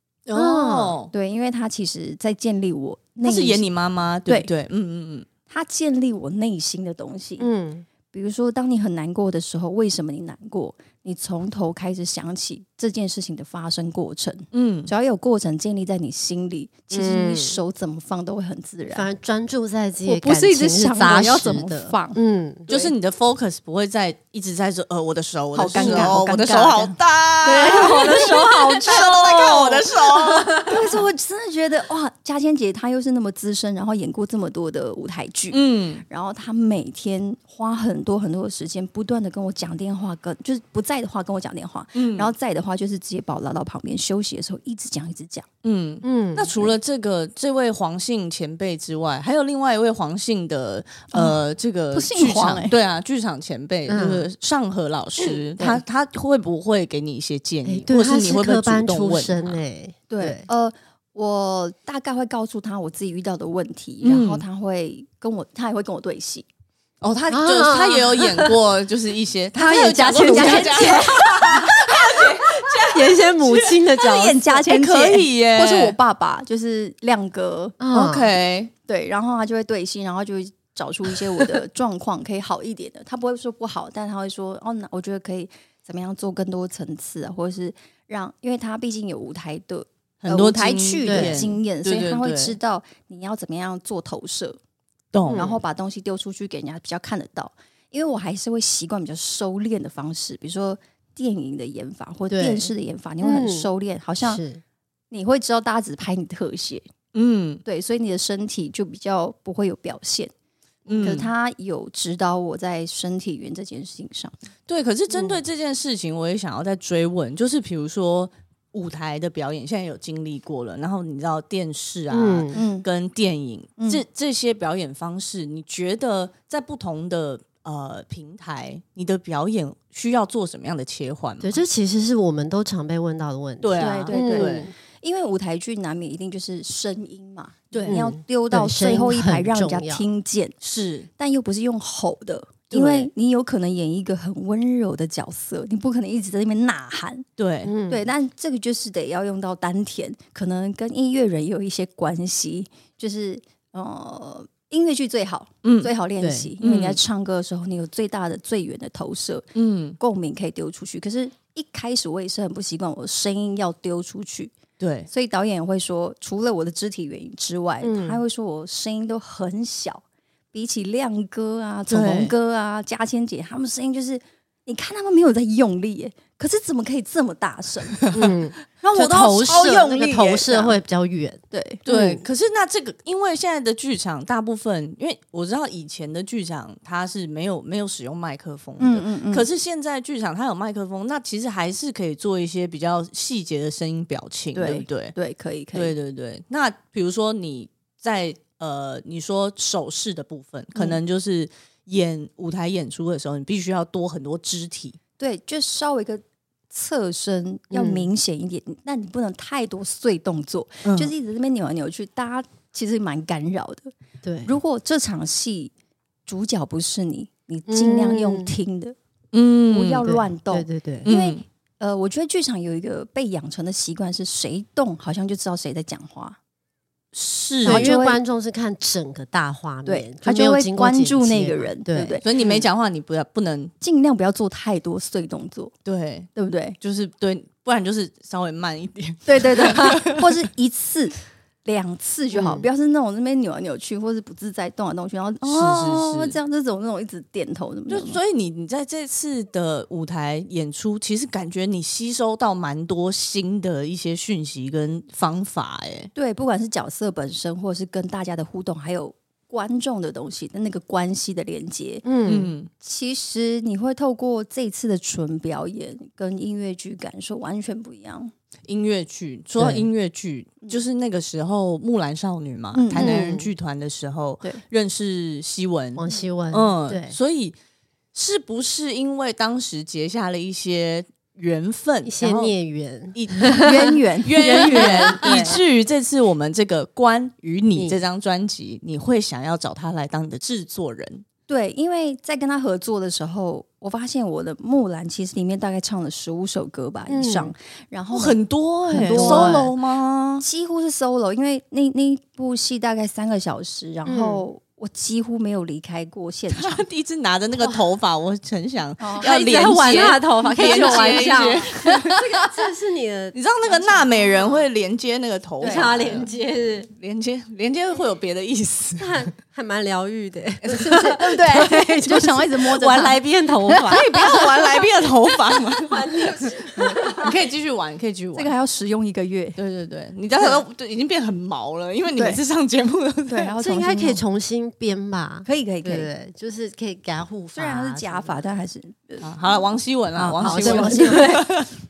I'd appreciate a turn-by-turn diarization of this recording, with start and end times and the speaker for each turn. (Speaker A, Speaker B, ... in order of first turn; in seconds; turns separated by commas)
Speaker A: 0.3-1.1, Speaker B: 0.3-1.0, Speaker C: 1.1-3.6, Speaker A: 3.2-5.3, Speaker C: 5.5-7.5, Speaker B: 7.4-7.8, Speaker C: 8.1-19.1, Speaker A: 14.5-14.9, Speaker B: 16.9-17.6, Speaker B: 18.9-22.7, Speaker C: 20.1-22.9, Speaker A: 22.7-30.6, Speaker C: 25.5-29.9, Speaker B: 25.8-26.2, Speaker B: 27.5-30.9, Speaker C: 30.6-45.5, Speaker A: 35.5-36.0, Speaker A: 42.0-42.3, Speaker A: 45.6-59.6, Speaker B: 46.0-46.7, Speaker C: 51.1-51.4, Speaker C: 51.9-52.8, Speaker B: 53.9-54.3, Speaker C: 55.6-55.8, Speaker B: 57.7-60.5, Speaker C: 60.1-66.5, Speaker A: 64.0-64.4, Speaker A: 67.0-73.8, Speaker B: 67.3-68.5, Speaker C: 69.6-71.5, Speaker B: 69.6-74.6, Speaker C: 73.9-77.8, Speaker A: 74.6-76.0, Speaker B: 77.8-78.3, Speaker A: 77.9-78.7, Speaker C: 78.9-94.6, Speaker A: 90.2-92.6, Speaker B: 91.1-91.5, Speaker A: 95.1-95.5, Speaker B: 95.3-95.6, Speaker C: 95.3-104.4, Speaker B: 102.3-102.7, Speaker B: 103.2-103.7, Speaker B: 104.2-104.6, Speaker C: 105.1-106.9, Speaker A: 107.1-107.6, Speaker C: 107.7-110.3, Speaker A: 110.9-111.3, Speaker C: 110.9-114.4, Speaker A: 114.7-131.6, Speaker B: 122.1-122.6, Speaker C: 122.5-122.9, Speaker C: 123.8-124.0, Speaker B: 131.4-134.7, Speaker A: 133.6-134.7, Speaker C: 133.8-140.5, Speaker B: 137.8-140.1, Speaker A: 140.6-141.1, Speaker C: 141.2-147.3, Speaker A: 142.7-143.1, Speaker A: 147.4-147.7, Speaker B: 147.6-148.1, Speaker C: 147.9-159.5, Speaker A: 155.6-155.9, Speaker B: 156.2-156.5, Speaker A: 156.6-157.0, Speaker A: 159.6-160.0, Speaker C: 160.0-164.6, Speaker A: 164.8-165.1, Speaker C: 165.1-178.2, Speaker B: 167.8-168.2, Speaker A: 171.9-172.3, Speaker B: 178.1-182.2, Speaker C: 178.8-180.8, Speaker C: 181.5-181.9, Speaker A: 181.9-195.2, Speaker C: 188.8-189.5, Speaker C: 194.6-195.9, Speaker A: 195.7-205.0, Speaker C: 205.2-213.9, Speaker B: 207.7-208.1, Speaker A: 210.8-211.1, Speaker B: 214.2-214.5, Speaker C: 214.5-215.7, Speaker C: 216.3-219.0, Speaker B: 217.7-218.6, Speaker A: 219.3-220.2, Speaker C: 219.7-226.4, Speaker B: 220.1-221.1, Speaker A: 221.1-221.4, Speaker A: 227.1-227.9, Speaker C: 227.7-228.2, Speaker B: 227.7-232.6, Speaker C: 229.8-232.3, Speaker A: 232.2-233.7, Speaker C: 233.8-235.7, Speaker A: 235.8-236.3, Speaker C: 236.3-236.8, Speaker A: 236.8-240.2, Speaker C: 239.3-248.2, Speaker B: 242.3-242.7, Speaker A: 245.4-246.4, Speaker A: 247.9-256.1, Speaker C: 256.1-262.0, Speaker B: 262.0-262.5, Speaker A: 262.3-262.7, Speaker C: 262.8-268.3, Speaker A: 268.7-277.6, Speaker B: 269.6-269.9, Speaker C: 272.8-273.2, Speaker B: 272.9-273.5, Speaker B: 276.0-277.2, Speaker A: 278.1-282.5, Speaker B: 282.1-285.6, Speaker A: 283.1-291.2, Speaker C: 283.6-285.6, Speaker C: 291.5-298.4, Speaker B: 297.1-297.5, Speaker A: 298.1-300.4, Speaker C: 298.9-299.7, Speaker B: 298.9-299.7, Speaker C: 300.4-306.9, Speaker B: 304.1-304.4, Speaker A: 306.5-312.3, Speaker C: 309.0-311.6, Speaker B: 309.2-314.5, Speaker A: 313.3-316.3, Speaker C: 314.1-314.5, Speaker C: 315.6-316.2, Speaker B: 315.6-316.9, Speaker A: 317.0-319.2, Speaker B: 319.0-324.9, Speaker A: 320.6-321.0, Speaker C: 320.9-324.0, Speaker A: 323.8-328.5, Speaker B: 325.5-327.4, Speaker C: 326.8-327.1, Speaker C: 328.4-329.6, Speaker A: 329.6-333.5, Speaker C: 333.3-334.2, Speaker B: 333.6-338.4, Speaker C: 335.4-336.1, Speaker C: 337.6-339.6, Speaker A: 339.2-341.7, Speaker C: 340.2-341.5, Speaker B: 340.4-341.5